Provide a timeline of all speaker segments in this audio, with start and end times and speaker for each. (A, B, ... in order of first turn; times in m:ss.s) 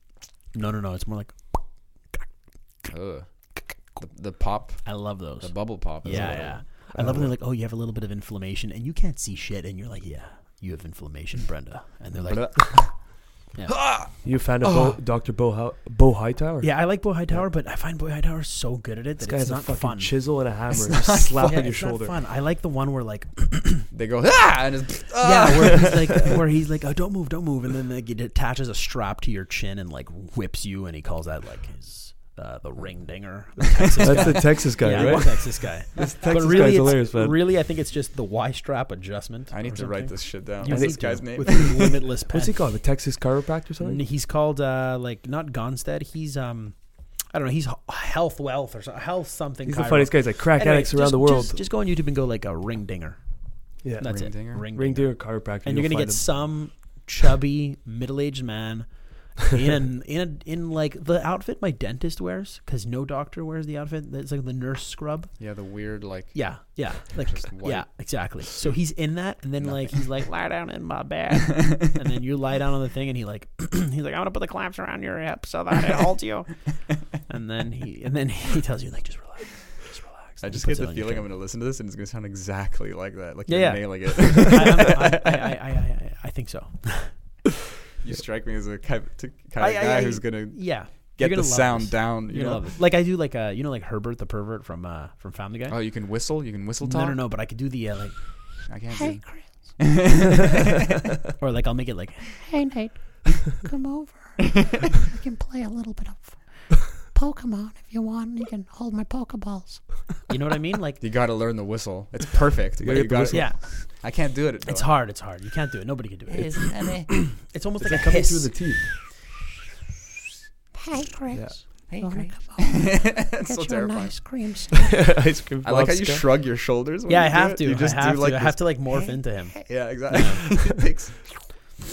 0:00.5-0:02.3 A
0:02.9-0:03.3 B
0:04.0-0:06.7 B
0:04.8-0:13.8 A
0:06.0-0:07.3 C
0:12.2-0:15.0 B
0:14.2-0:17.4 C
0:16.6-0:23.9 A
0:19.2-0:22.2 C
0:20.9-0:21.6 B
0:23.9-0:26.4 B
0:25.2-0:42.6 A
0:34.0-0:34.4 B
0:34.0-0:37.4 C
0:34.9-0:35.2 B
0:39.5-0:42.1 B
0:40.6-0:41.8 C
0:42.3-0:44.0 C
0:43.8-0:46.8 A
0:47.3-0:53.2 A
0:49.6-0:51.6 C
0:53.8-0:56.2 C
0:54.0-1:05.4 A
0:54.0-0:54.7 B
1:05.4-1:07.9 B
1:06.3-1:21.3 A
1:09.6-1:10.3 B
1:20.4-1:25.5 B
1:23.5-1:27.2 A
1:28.0-1:32.8 B
1:29.6-1:36.0 A
1:35.7-1:37.2 B
1:36.8-1:38.7 A
1:38.7-1:40.8 B
1:38.9-1:40.1 D
1:41.4-1:42.4 A
1:42.4-1:50.3 D
1:50.3-1:51.0 A
1:51.0-1:55.0 B
1:52.8-1:53.6 C
1:53.3-1:58.7 A
1:56.3-1:57.2 B
1:57.8-1:58.9 C
2:00.7-2:05.1 D
2:01.3-2:01.6 C
2:01.9-2:04.8 B
2:04.9-2:06.3 C
2:05.6-2:08.8 B
2:07.1-2:11.0 A
2:09.6-2:11.4 B